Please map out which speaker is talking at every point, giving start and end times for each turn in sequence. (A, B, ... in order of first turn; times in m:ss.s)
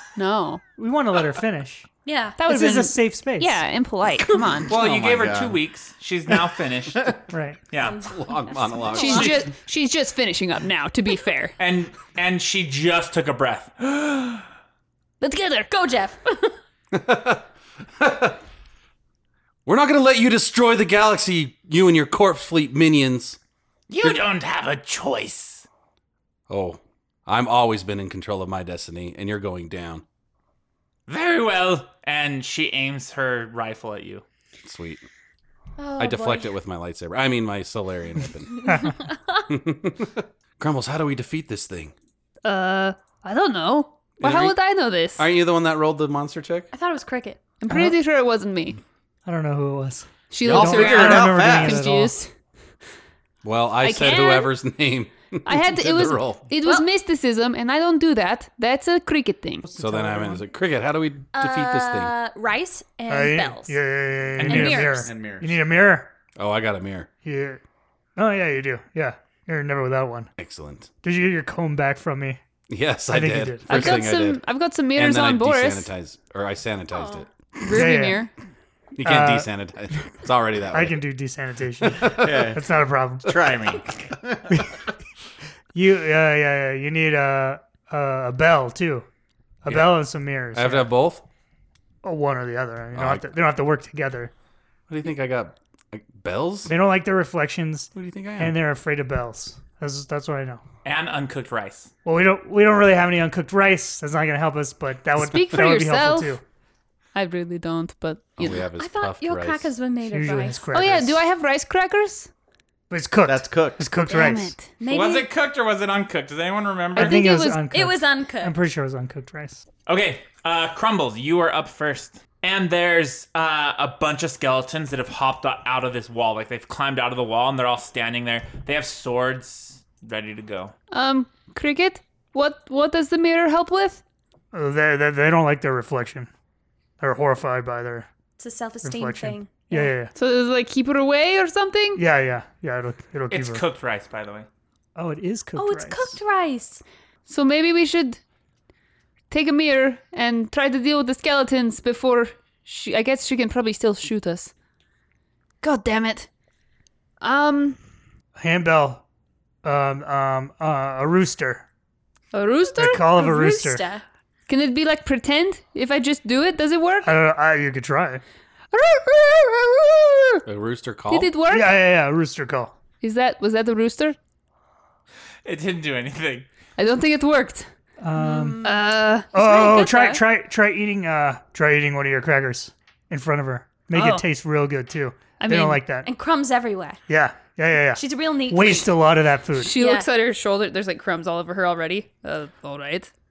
0:00.2-0:00.6 A
0:00.8-0:01.9 B
0:02.0-0:02.4 C
0:02.4-0:04.7 A
0:02.4-0:03.7 B
0:04.7-0:05.6 D
0:04.7-0:08.0 E
0:07.3-0:07.6 B
0:07.8-0:09.3 C
0:07.8-0:09.4 F
0:08.9-0:11.6 A
0:11.6-0:14.5 E
0:15.2-0:15.7 A
0:15.7-0:16.5 C
0:16.9-0:18.4 F
0:19.6-0:23.4 F
0:23.9-0:25.7 E
0:26.5-0:30.0 F
0:31.1-0:34.2 E
0:34.6-0:35.1 F
0:35.8-0:36.6 C
0:36.0-0:38.9 F
0:39.5-0:41.9 F
0:42.4-0:45.3 A
0:44.2-0:44.6 F
0:45.2-0:46.7 F
0:46.7-0:47.4 C
0:47.6-0:48.8 A
0:47.7-0:48.0 B
0:49.2-0:52.2 B
0:50.3-0:52.3 A
0:50.4-0:51.9 D
0:53.4-0:56.4 F
0:53.8-0:54.5 A
0:55.5-0:59.7 A
0:59.7-1:00.5 B
0:59.8-1:02.1 F
1:01.3-1:03.8 C
1:03.1-1:06.1 B
1:04.4-1:04.9 E
1:04.5-1:05.1 C
1:05.0-1:05.7 D
1:06.4-1:07.1 F
1:07.2-1:07.6 B
1:08.2-1:10.3 B
1:10.4-1:10.9 F
1:11.0-1:12.4 B
1:12.7-1:17.3 F
1:13.1-1:14.0 B
1:13.7-1:15.9 A
1:16.9-1:17.2 C
1:17.6-1:18.3 A
1:17.7-1:18.3 B
1:19.0-1:21.1 F
1:19.0-1:19.5 B
1:20.7-1:23.4 B
1:21.8-1:22.4 F
1:22.1-1:24.7 D
1:25.7-1:29.1 B
1:29.6-1:30.9 B
1:29.7-1:30.0 F
1:30.5-1:31.2 F
1:32.0-1:34.3 B
1:33.0-1:33.3 F
1:34.9-1:36.7 F
1:36.6-1:40.6 B
1:38.0-1:38.6 F
1:40.8-1:41.9 E
1:42.0-1:46.4 B
1:45.2-1:46.4 A
1:47.2-1:48.5 A
1:48.4-1:49.7 F
1:48.8-1:50.6 C
1:50.0-1:51.2 B
1:50.7-1:52.3 A
1:52.9-1:54.5 B
1:53.2-1:53.9 D
1:54.1-1:54.7 A
1:54.8-1:55.3 C
1:54.9-1:57.2 E
1:57.0-1:57.7 A
1:57.0-1:59.6 B
1:57.7-1:58.6 C
1:59.9-2:10.7 E
2:10.9-2:14.0 A
2:14.5-2:16.3 B
2:17.0-2:18.1 B
2:18.4-2:19.9 C
2:18.8-2:20.1 B
2:20.1-2:22.0 A
2:22.0-2:23.6 B
2:23.3-2:24.5 E
2:25.0-2:26.2 B
2:25.6-2:26.8 C
2:27.3-2:28.2 A
2:29.3-2:34.5 A
2:35.6-2:36.3 A
2:37.2-2:37.8 A
2:38.4-2:39.0 B
2:39.6-2:41.6 B
2:42.3-2:43.2 A
2:42.8-2:43.8 B
2:43.2-2:44.0 C
2:44.5-2:47.1 A
2:47.0-2:48.2 B
2:48.7-2:50.4 A
2:50.4-2:51.3 F
2:51.1-2:51.8 A
2:51.5-2:52.8 B
2:53.0-2:54.2 A
2:55.4-2:56.5 E
2:56.8-2:57.7 A
2:58.0-2:58.6 B
2:58.2-3:00.2 C
2:58.6-2:59.3 A
2:59.3-3:06.1 B
3:03.9-3:04.3 A
3:05.4-3:05.9 A
3:06.0-3:07.0 C
3:07.1-3:09.8 B
3:08.0-3:09.0 C
3:09.6-3:13.1 A
3:09.8-3:10.1 C